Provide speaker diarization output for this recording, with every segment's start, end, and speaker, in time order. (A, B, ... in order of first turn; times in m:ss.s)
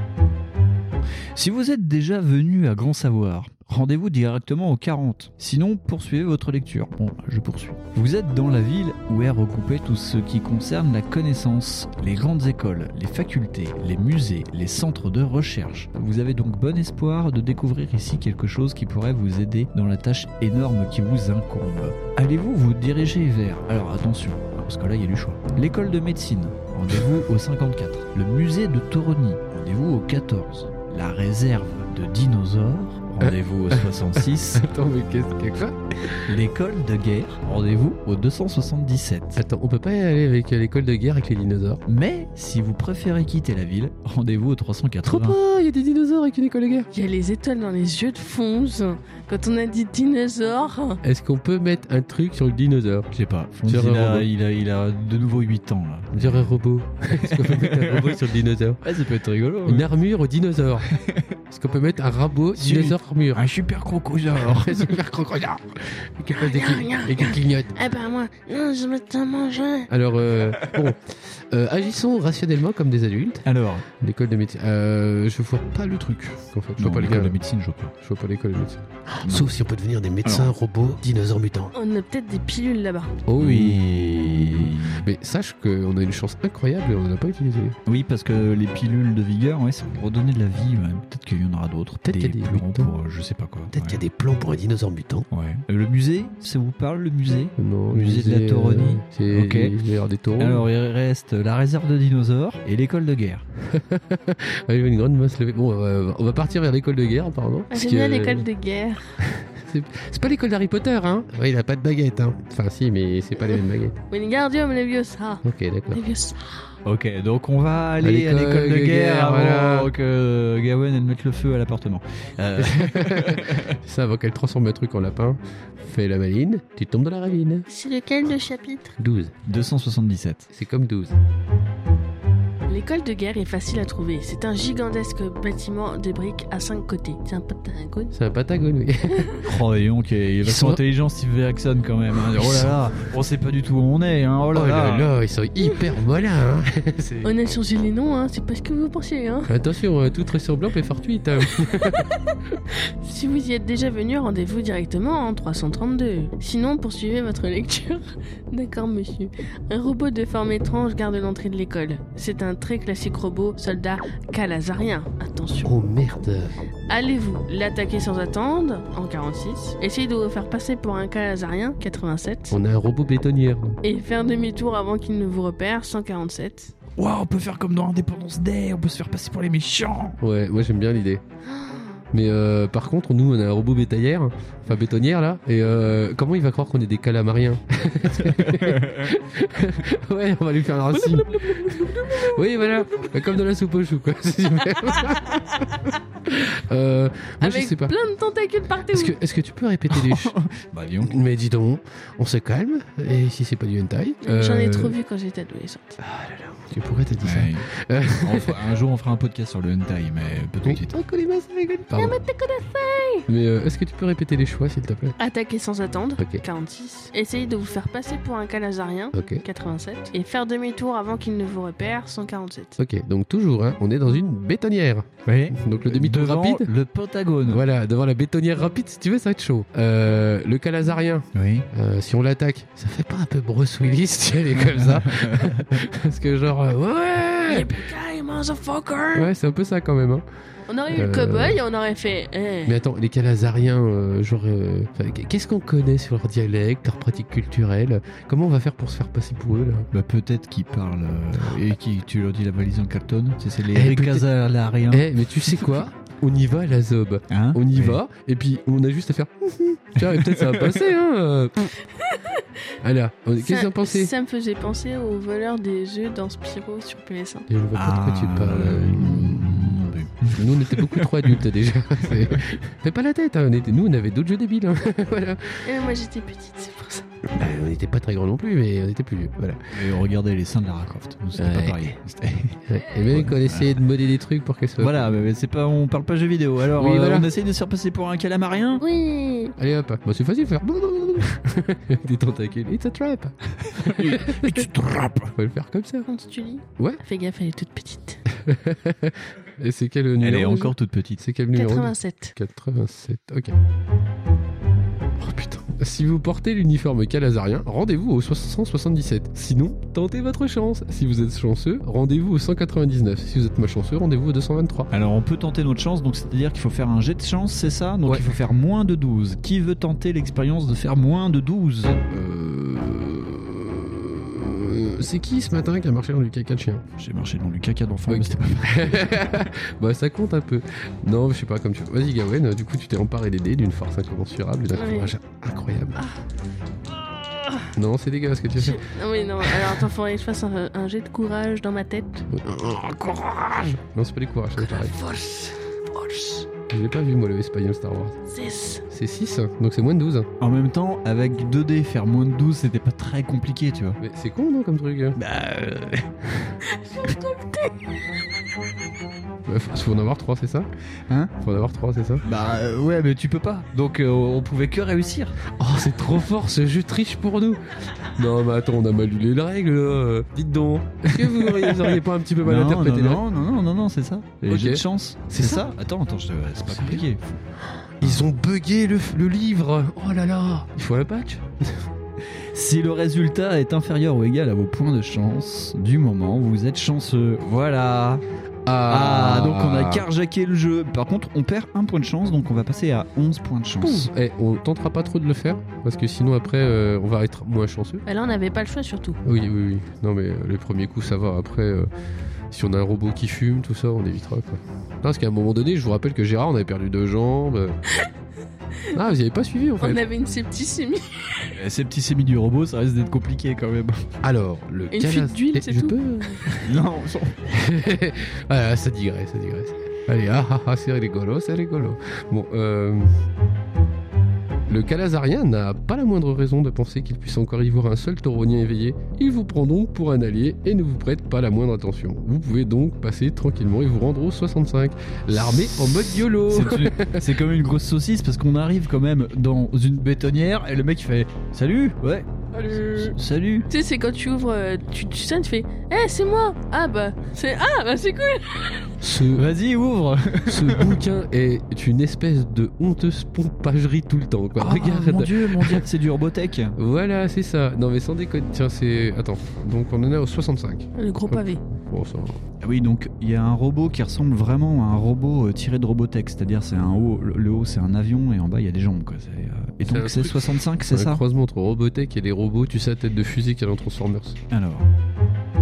0:01.4-0:34.6 A
0:33.2-0:36.3 B
0:36.3-0:39.4 A
0:39.4-0:41.8 B
0:41.9-0:45.4 A
0:45.0-0:46.9 B
0:46.9-0:51.0 C
0:51.0-0:53.1 B
0:53.1-0:56.6 A
0:53.6-0:54.3 B
0:56.1-0:58.8 B
0:57.2-0:58.2 A
0:58.8-0:59.9 A
0:59.6-1:00.9 B
1:00.9-1:01.2 A
1:01.5-1:03.5 B
1:02.6-1:05.0 A
1:04.4-1:07.7 B
1:06.3-1:09.9 C
1:09.9-1:13.4 B
1:13.4-1:13.8 A
1:14.0-1:17.4 B
1:16.8-1:17.9 A
1:18.0-1:21.7 B
1:19.2-1:19.5 A
1:20.2-1:20.5 A
1:21.7-1:23.2 C
1:23.3-1:27.8 B
1:23.4-1:25.1 A
1:27.9-1:34.0 A
1:32.0-1:32.9 B
1:33.7-1:35.3 B
1:35.3-1:39.7 A
1:37.6-1:40.7 B
1:40.4-1:43.4 A
1:43.6-1:48.5 B
1:47.7-1:49.2 C
1:49.2-1:54.0 B
1:54.1-1:56.6 C
1:55.4-1:56.0 B
1:56.8-2:03.8 A
1:58.0-1:59.9 B
2:02.6-2:07.7 B
2:07.7-2:09.0 C
2:09.0-2:09.3 B
2:09.5-2:10.5 A
2:10.5-2:11.2 B
2:12.7-2:18.1 C
2:18.1-2:19.4 B
2:19.1-2:19.4 C
2:19.4-2:25.1 A
2:20.4-2:20.8 B
2:22.3-2:22.8 B
2:24.5-2:27.3 B
2:27.2-2:29.5 C
2:29.5-2:32.1 B
2:33.0-2:45.7 C
2:45.6-2:46.5 B
2:46.9-2:52.6 C
2:52.5-2:53.8 B
2:53.8-2:56.7 C
2:57.0-3:00.2 A
3:00.2-3:01.2 B
3:01.5-3:01.8 C
3:02.1-3:18.0 B
3:08.2-3:09.1 A
3:10.9-3:13.1 C
3:17.4-3:19.2 C
3:18.9-3:20.4 B
3:19.9-3:21.1 A
3:21.0-3:25.0 B
3:24.2-3:26.0 C
3:26.0-3:28.6 B
3:27.2-3:27.7 A
3:28.2-3:31.0 A
3:30.6-3:32.2 B
3:31.9-3:33.3 C
3:33.3-3:35.2 B
3:35.2-3:42.8 C
3:36.2-3:36.4 B
3:39.1-3:39.4 B
3:42.8-3:46.7 B
3:45.3-3:47.6 A
3:47.5-3:57.8 B
3:51.4-3:51.7 A
3:54.6-3:55.7 A
3:57.5-3:59.3 C
3:59.2-4:00.2 B
4:00.7-4:02.8 C
4:00.9-4:01.6 B
4:02.6-4:09.9 B
4:09.9-4:15.7 A
4:13.7-4:14.3 B
4:14.9-4:21.8 B
4:17.3-4:18.0 A
4:20.0-4:20.8 A
4:22.0-4:22.4 C
4:22.8-4:24.1 B
4:23.4-4:27.5 C
4:27.5-4:35.6 B
4:27.7-4:31.4 A
4:35.6-4:37.1 C
4:37.3-4:39.6 B
4:39.7-4:43.8 A
4:41.4-4:42.0 B
4:42.7-4:45.1 B
4:44.8-4:48.8 A
4:46.8-4:47.3 B
4:48.8-4:49.6 C
4:49.6-4:54.7 B
4:53.6-4:55.3 A
4:55.3-4:56.1 B
4:56.1-4:58.2 C
4:58.3-5:03.6 B
5:00.2-5:01.2 A
5:01.5-5:02.3 C
5:05.2-5:14.9 B
5:14.9-5:22.0 A
5:18.1-5:18.3 B
5:22.1-5:26.8 B
5:27.0-5:29.4 A
5:28.1-5:36.1 B
5:34.7-5:35.1 C
5:37.3-5:37.7 C
5:37.7-5:38.9 B
5:38.5-5:42.3 C
5:39.4-5:39.8 B
5:42.3-5:45.0 B
5:44.6-5:46.5 C
5:46.7-5:48.2 B
5:48.3-5:48.9 C
5:48.9-5:50.3 B
5:50.4-5:54.0 A
5:54.0-5:55.2 B
5:55.2-5:56.1 A
5:56.6-5:58.2 C
5:59.5-6:00.7 B
6:01.4-6:02.2 B
6:02.2-6:05.4 A
6:05.6-6:13.2 B
6:11.1-6:17.3 A
6:14.5-6:15.7 B
6:16.7-6:17.0 B
6:17.7-6:21.9 B
6:18.0-6:18.3 A
6:22.5-6:28.2 A
6:28.7-6:30.1 B
6:28.9-6:34.1 A
6:33.8-6:38.0 B
6:38.1-6:39.2 C
6:39.2-6:41.9 B
6:42.5-6:47.8 B
6:48.9-6:50.0 B
6:49.8-6:51.5 C
6:51.6-6:54.0 A
6:54.2-6:56.6 B
6:54.9-6:56.4 C
6:56.5-6:57.4 A
6:57.5-7:03.1 B
7:04.7-7:17.3 B
7:16.5-7:23.7 A
7:22.6-7:23.1 C
7:23.7-7:28.9 C
7:29.0-7:29.5 B
7:29.3-7:31.0 A
7:30.5-7:35.9 B
7:34.6-7:36.8 A
7:36.8-7:42.4 B
7:41.0-7:41.6 C
7:42.6-7:51.2 A
7:49.9-7:54.4 B
7:54.5-7:54.9 A